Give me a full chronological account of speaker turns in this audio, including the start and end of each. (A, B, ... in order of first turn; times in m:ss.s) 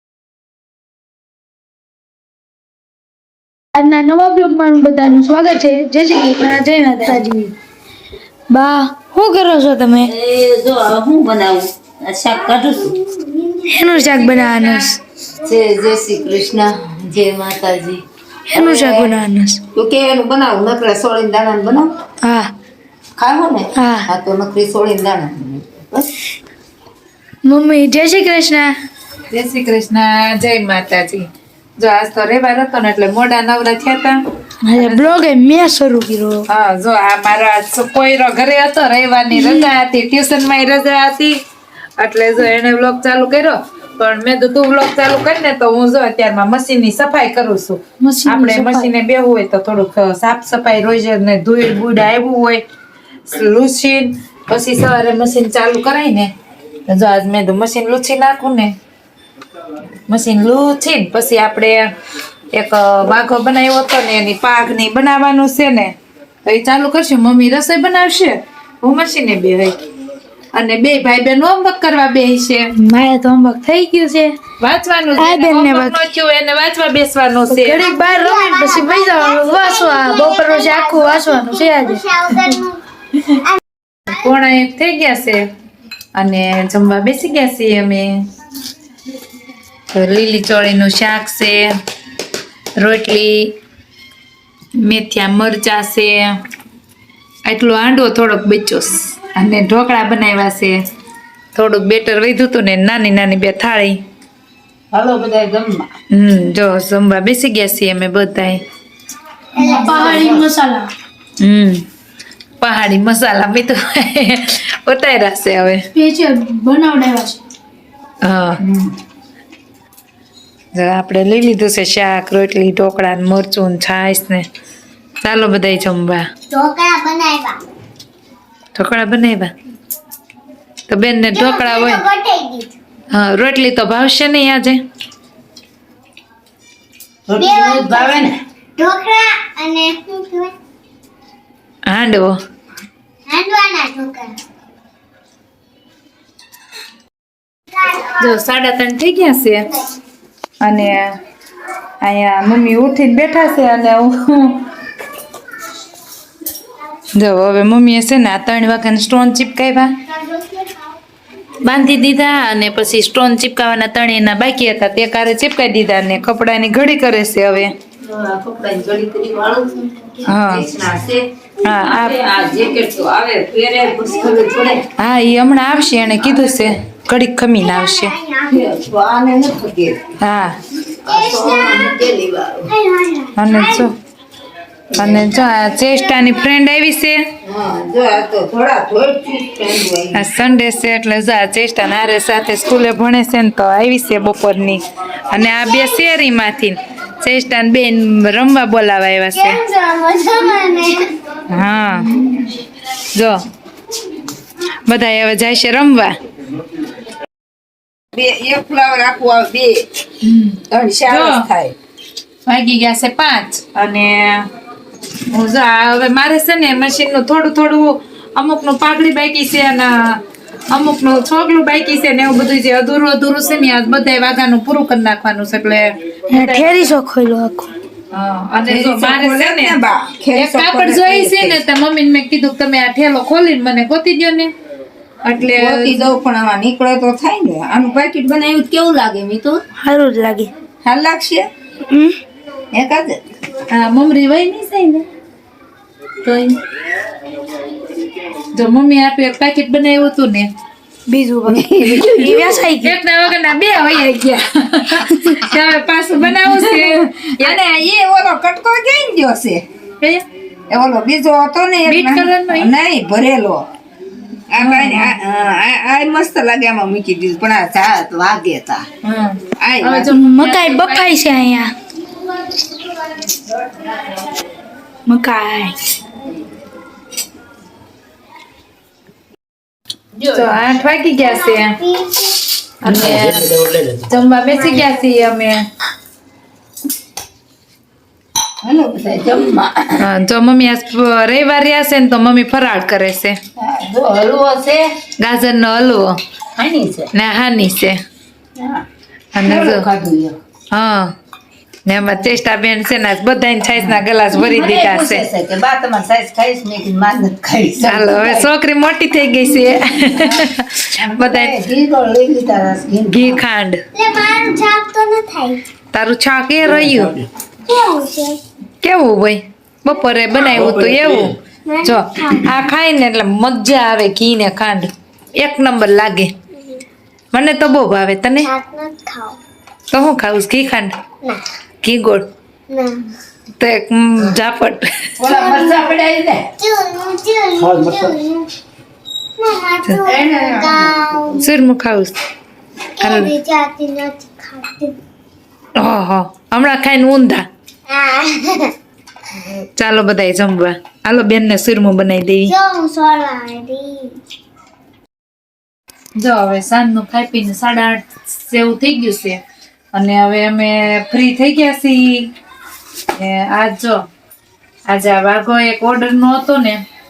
0:03.8-0:07.5 A
0:08.5-0:10.1 A
0:10.0-0:13.0 B
0:13.2-0:14.5 C
0:13.7-0:15.0 A
0:15.4-0:18.0 B
0:18.5-0:19.6 A
0:18.6-0:19.2 B
0:19.7-0:21.9 B
0:22.2-0:22.5 A
0:23.2-0:26.2 B
0:23.8-0:24.1 A
0:27.4-0:28.7 A
0:29.3-0:31.3 D
0:31.8-0:34.2 D
0:34.6-0:36.5 A
0:34.8-0:35.1 D
0:36.5-0:41.4 D
0:39.3-0:39.7 A
0:42.0-0:52.6 D
0:48.0-0:48.9 A
0:53.3-0:56.3 D
0:56.9-0:58.7 D
1:00.1-1:01.9 D
1:02.5-1:05.9 D
1:06.4-1:09.8 D
1:10.5-1:12.7 D
1:12.8-1:14.4 A
1:14.6-1:17.8 D
1:15.2-1:16.0 A
1:17.5-1:22.5 A
1:17.8-1:22.8 C
1:24.1-1:25.5 D
1:26.2-1:28.3 D
1:29.9-1:31.7 D
1:32.8-1:33.5 D
1:34.8-1:36.4 D
1:37.4-1:40.8 D
1:41.5-1:44.0 D
1:44.9-1:45.9 B
1:46.1-1:48.6 D
1:49.6-1:50.4 C
1:49.6-1:50.9 A
1:49.9-1:50.4 B
1:51.4-1:51.8 D
1:52.6-1:55.8 D
1:55.9-1:57.4 A
1:58.2-1:58.6 D
2:00.7-2:04.4 D
2:05.2-2:06.3 D
2:06.5-2:07.6 C
2:08.8-2:09.5 D
2:10.9-2:12.0 D
2:11.3-2:12.8 C
2:13.1-2:14.8 D
2:17.3-2:18.4 B
2:17.4-2:18.2 C
2:18.8-2:20.5 C
2:21.9-2:22.3 D
2:23.3-2:24.4 C
2:28.2-2:29.7 D
2:30.6-2:31.1 D
2:32.0-2:34.6 D
2:37.2-2:40.0 D
2:40.3-2:40.8 C
2:41.6-2:47.7 D
2:48.0-2:51.2 B
2:50.2-2:50.7 D
2:51.6-2:52.2 D
2:51.8-2:54.9 B
2:55.0-2:58.2 D
2:57.6-2:58.7 C
2:58.5-3:00.1 B
3:00.2-3:00.6 D
3:01.0-3:02.7 B
3:01.1-3:02.1 C
3:02.7-3:03.9 C
3:03.3-3:03.9 D
3:04.9-3:05.3 B
3:05.0-3:07.2 D
3:07.4-3:10.3 B
3:10.1-3:19.6 D
3:19.3-3:21.1 C
3:21.5-3:22.2 D
3:23.1-3:23.4 D
3:24.9-3:26.1 D
3:28.1-3:29.9 B
3:30.2-3:31.4 D
3:30.7-3:31.8 B
3:32.4-3:34.5 D
3:35.3-3:40.2 D
3:40.7-3:46.9 D
3:46.3-3:47.7 A
3:48.1-3:49.8 D
3:48.6-3:51.6 B
3:50.3-3:54.5 D
3:55.2-3:56.0 D
3:55.4-3:59.6 B
3:59.8-4:00.5 A
4:00.8-4:01.5 B
4:01.9-4:02.2 A
4:02.7-4:03.2 B
4:03.7-4:05.1 D
4:06.2-4:06.6 D
4:08.5-4:10.5 D
4:11.1-4:13.0 A
4:11.5-4:12.6 B
4:12.8-4:17.6 D
4:15.1-4:15.4 A
4:17.4-4:19.6 B
4:20.7-4:23.6 B
4:21.9-4:22.7 D
4:24.5-4:28.9 B
4:24.6-4:25.2 D
4:29.0-4:31.1 D
4:29.6-4:30.1 B
4:30.1-4:31.7 A
4:35.1-4:35.8 A
4:40.2-4:40.5 B
4:40.3-4:41.8 D
4:41.2-4:42.5 C
4:42.8-4:43.6 D
4:42.9-4:44.0 B
4:44.1-4:45.6 D
4:44.6-4:45.2 C
4:48.6-4:50.0 B
4:50.0-4:53.4 D
4:53.6-4:54.9 B
4:55.2-4:56.1 D
4:56.6-4:57.1 B
4:57.1-4:58.0 D
4:58.6-4:58.8 B
4:59.3-4:59.9 D
4:59.4-5:00.4 B
5:00.7-5:01.1 D
5:01.9-5:05.2 D
5:03.8-5:08.5 B
5:07.8-5:11.6 D
5:09.9-5:10.5 B
5:11.0-5:13.4 B
5:13.1-5:13.8 D
5:13.9-5:15.6 C
5:15.9-5:17.1 D
5:16.6-5:17.3 B
5:17.6-5:18.4 C
5:18.8-5:26.3 D
5:20.5-5:21.3 B
5:21.7-5:22.5 C
5:27.3-5:28.5 D
5:28.4-5:29.4 C
5:29.9-5:31.0 D
5:31.8-5:32.3 D
5:32.7-5:33.1 C
5:33.6-5:35.1 D
5:35.2-5:36.5 B
5:35.2-5:35.9 C
5:36.6-5:38.5 C
5:37.6-5:38.2 B
5:39.4-5:41.4 C
5:40.1-5:41.4 B
5:41.4-5:42.2 D
5:43.0-5:45.0 C
5:43.0-5:43.3 D
5:45.8-5:47.4 D
5:47.9-5:48.7 C
5:49.4-5:52.5 D
5:52.5-5:54.2 C
5:56.2-5:59.4 D
5:59.9-6:02.3 D
6:03.1-6:04.0 D
6:04.9-6:06.8 D